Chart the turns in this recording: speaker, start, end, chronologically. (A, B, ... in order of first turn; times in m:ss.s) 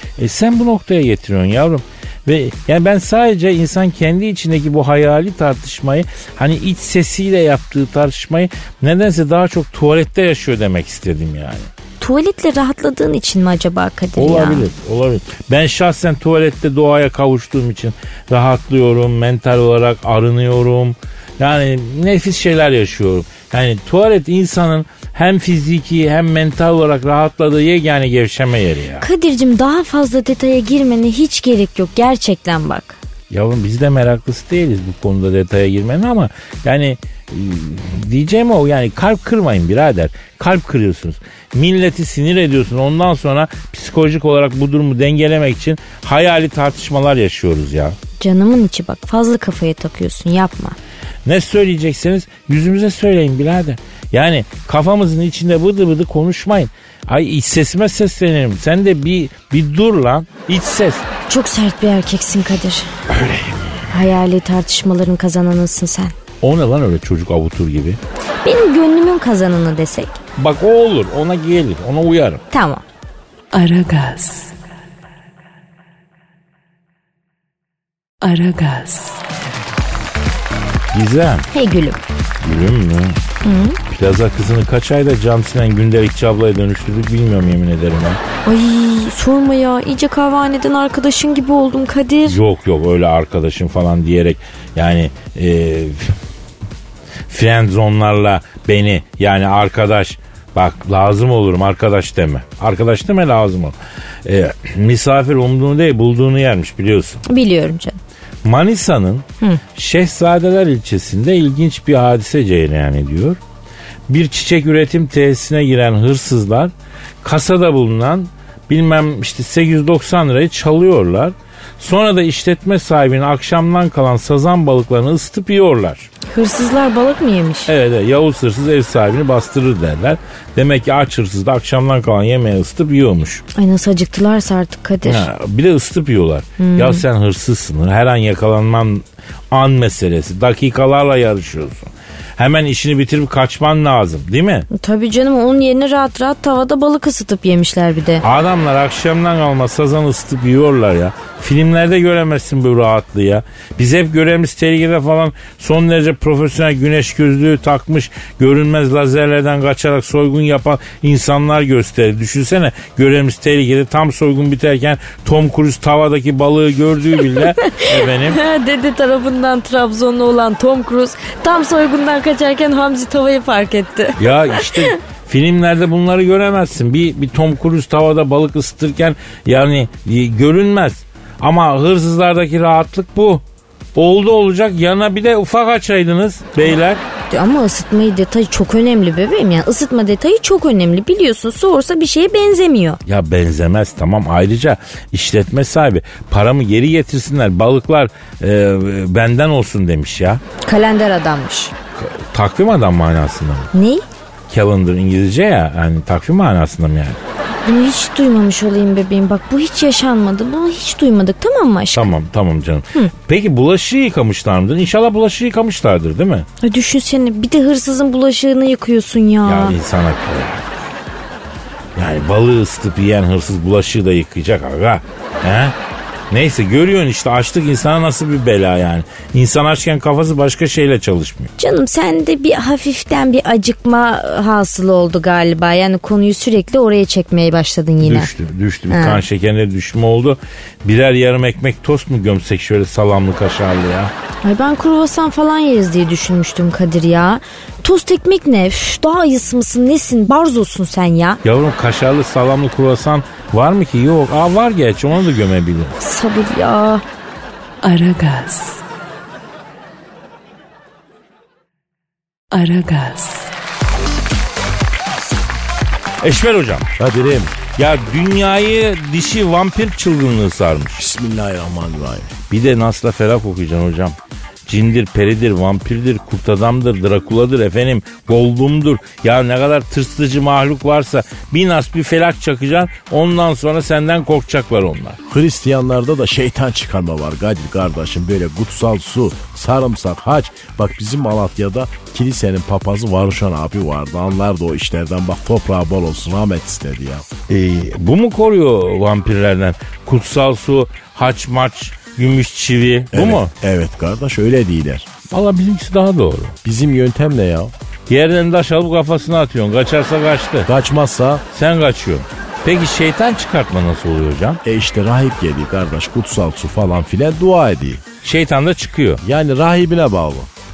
0:00.2-0:11.7 A
0:12.0-0:14.7 B
0:14.2-0:29.1 A
0:29.0-0:33.0 B
0:33.3-0:48.0 A
0:48.2-0:50.8 B
0:51.2-1:01.0 A
1:01.3-1:02.9 B
1:03.1-1:03.6 A
1:03.9-1:06.1 B
1:06.4-1:08.0 A
1:08.4-1:10.2 B
1:10.4-1:12.4 A
1:12.5-1:12.8 B
1:13.5-1:14.5 C
1:18.2-1:19.2 C
1:20.9-1:21.5 A
1:21.5-1:22.0 B
1:22.4-1:23.2 A
1:23.4-1:23.8 B
1:23.9-1:28.2 A
1:28.4-1:32.4 B
1:32.2-1:36.2 A
1:37.3-1:47.2 A
1:47.2-1:48.0 B
1:48.4-1:53.4 A
1:54.1-2:06.1 A
2:06.3-2:07.7 B
2:07.7-2:13.4 A
2:13.6-2:15.3 B
2:15.0-2:24.7 A
2:16.6-2:17.0 B
2:24.7-2:28.2 B
2:28.2-2:48.4 A
2:47.3-2:55.0 B
2:54.2-3:03.4 A
3:03.9-3:07.0 A
3:07.3-3:13.0 B
3:13.0-3:20.4 A
3:20.6-3:21.7 B
3:21.9-3:23.7 A
3:23.7-3:24.0 B
3:24.5-3:27.2 A
3:27.6-3:32.1 B
3:31.9-3:36.5 A
3:36.6-3:39.8 B
3:39.4-3:40.9 A
3:42.0-3:45.7 A
3:46.3-3:51.5 A
3:51.6-3:58.3 B
3:58.0-4:04.1 A
3:58.9-3:59.2 B
4:04.4-4:11.4 B
4:11.4-4:16.0 A
4:16.0-4:17.0 B
4:17.8-4:18.8 C
4:22.5-4:23.5 C
4:26.2-4:26.9 A
4:27.0-4:27.6 D
4:27.7-4:31.0 A
4:31.0-4:32.3 D
4:32.5-4:45.2 A
4:45.2-4:57.2 D
4:57.5-5:03.5 A
5:03.1-5:05.1 D
5:05.3-5:06.6 A
5:06.6-5:07.7 D
5:08.1-5:10.7 A
5:10.7-5:11.4 D
5:11.5-5:14.6 A
5:14.6-5:18.0 D
5:18.2-5:19.2 A
5:19.2-5:20.5 D